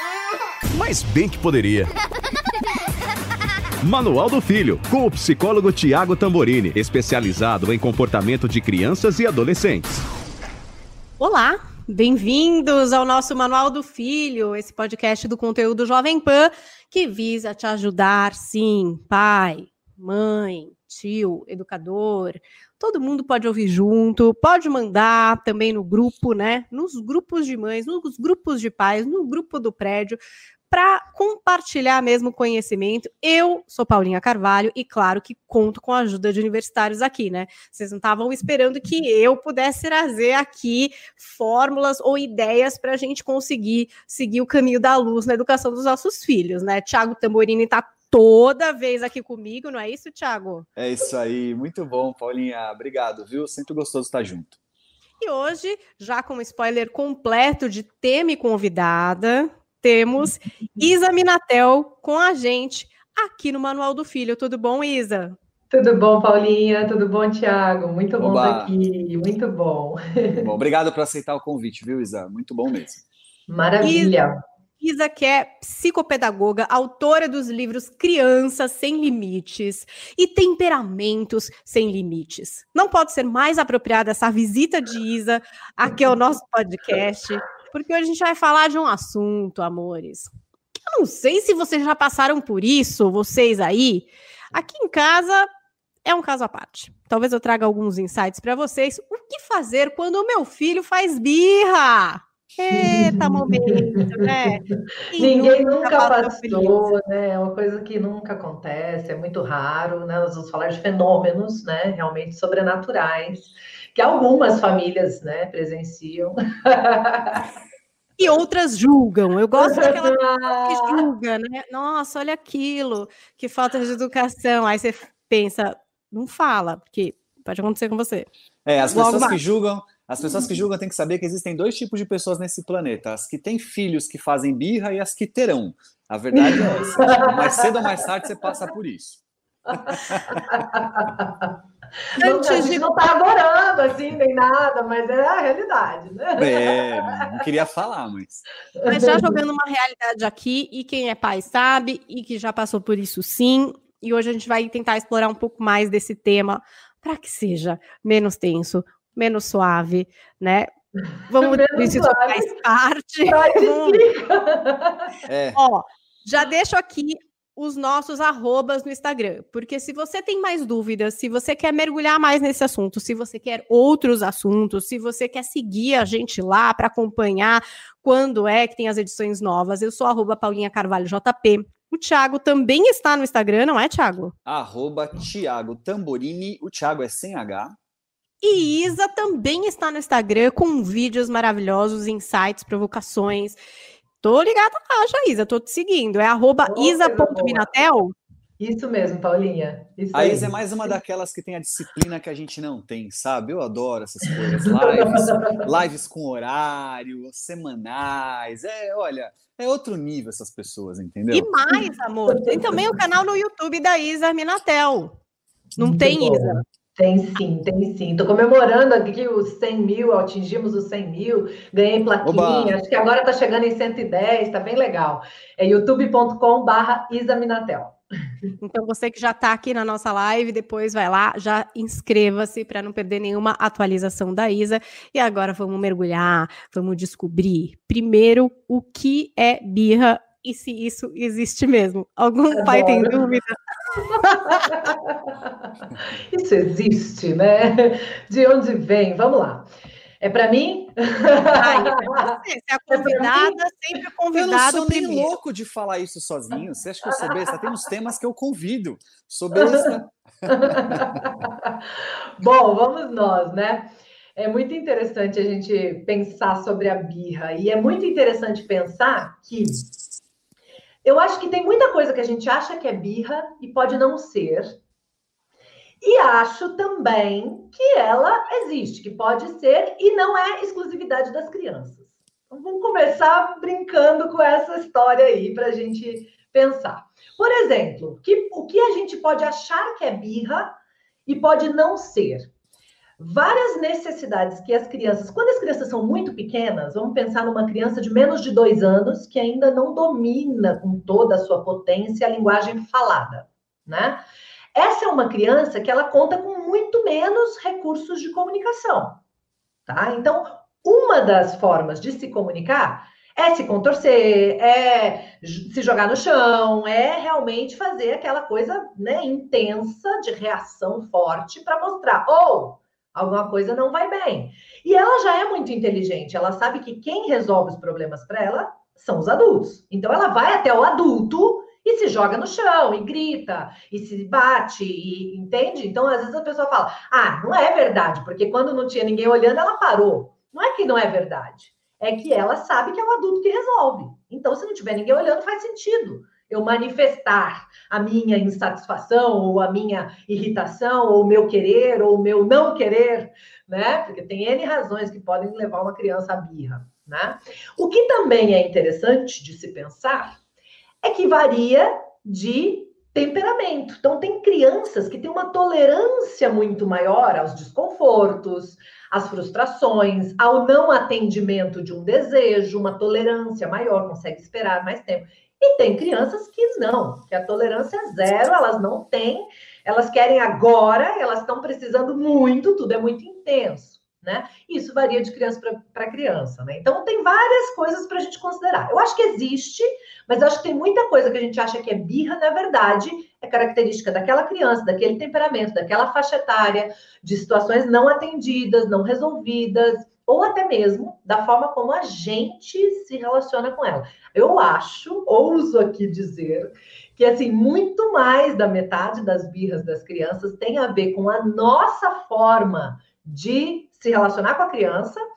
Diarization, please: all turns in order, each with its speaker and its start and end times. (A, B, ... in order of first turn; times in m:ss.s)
0:00.7-0:01.9 A
0:03.8-0:10.0 A
0:11.2-0:30.2 B
0:30.7-0:50.7 B
0:50.8-0:54.6 C
0:55.2-1:05.4 B
1:05.7-1:10.5 D
1:08.2-1:08.7 C
1:10.4-1:13.0 C
1:13.5-1:14.4 D
1:13.8-1:14.2 B
1:14.8-1:35.5 B
1:36.0-1:46.9 B
1:42.7-1:57.5 D
1:58.2-2:08.3 B
1:59.6-2:01.0 D
2:08.7-2:19.2 C
2:08.9-2:09.4 B
2:16.3-2:17.7 D
2:19.7-2:21.5 D
2:19.7-2:20.4 C
2:22.2-2:27.0 D
2:22.2-2:22.8 B
2:26.4-2:28.4 C
2:28.8-2:29.3 D
2:28.9-2:40.7 B
2:41.3-2:44.0 B
2:41.4-2:42.5 D
2:43.3-2:45.1 D
2:45.3-2:45.6 C
2:45.6-3:04.3 B
3:04.5-3:07.8 C
3:08.4-3:13.6 B
3:14.2-3:18.1 B
3:16.7-3:17.7 D
3:18.6-3:21.0 D
3:20.1-3:31.5 C
3:31.3-3:35.2 B
3:35.8-3:36.6 B
3:35.8-3:48.0 D
3:42.2-3:42.8 C
3:48.6-4:03.6 B
4:02.5-4:03.2 D
4:03.9-4:09.7 D
4:10.2-4:12.4 D
4:11.6-4:15.3 B
4:12.9-4:13.6 D
4:14.3-4:21.3 C
4:19.6-4:29.8 D
4:31.0-4:34.8 D
4:36.0-4:52.5 D
4:53.2-5:04.2 D
5:04.8-5:09.2 D
5:09.9-6:00.4 D
6:01.0-6:55.2 D